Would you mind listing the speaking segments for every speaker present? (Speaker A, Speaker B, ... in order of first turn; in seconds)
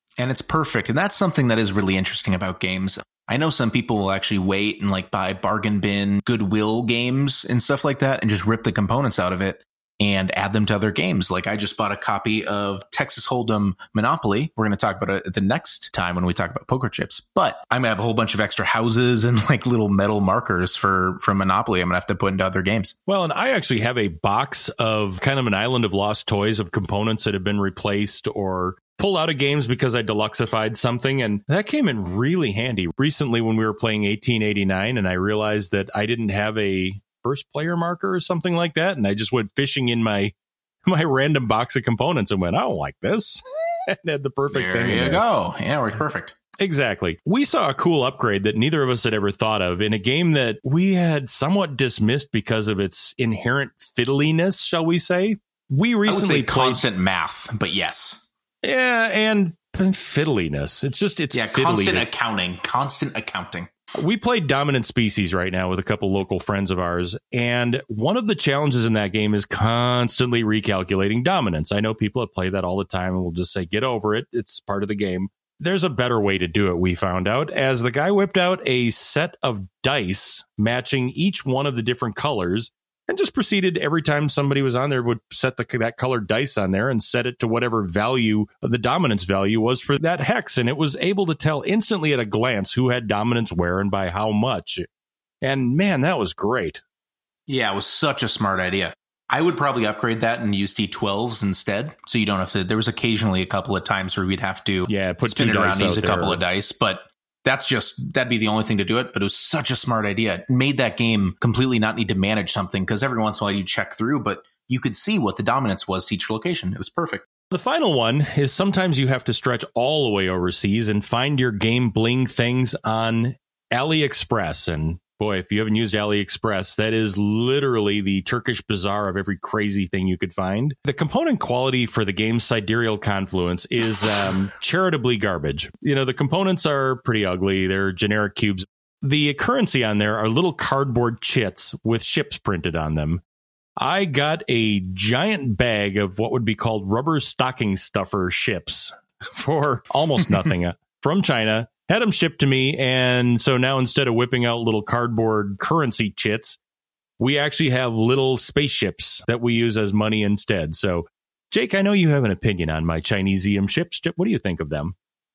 Speaker A: 0.2-22.9, 44.5-46.3, 56.0-58.2, 61.3-63.7, 97.5-117.3
Speaker B: 23.1-40.3, 40.9-45.2, 46.6-56.8, 58.6-62.1, 64.0-94.8, 95.4-96.8, 104.9-106.4, 117.5-143.2, 143.8-156.6, 157.2-164.9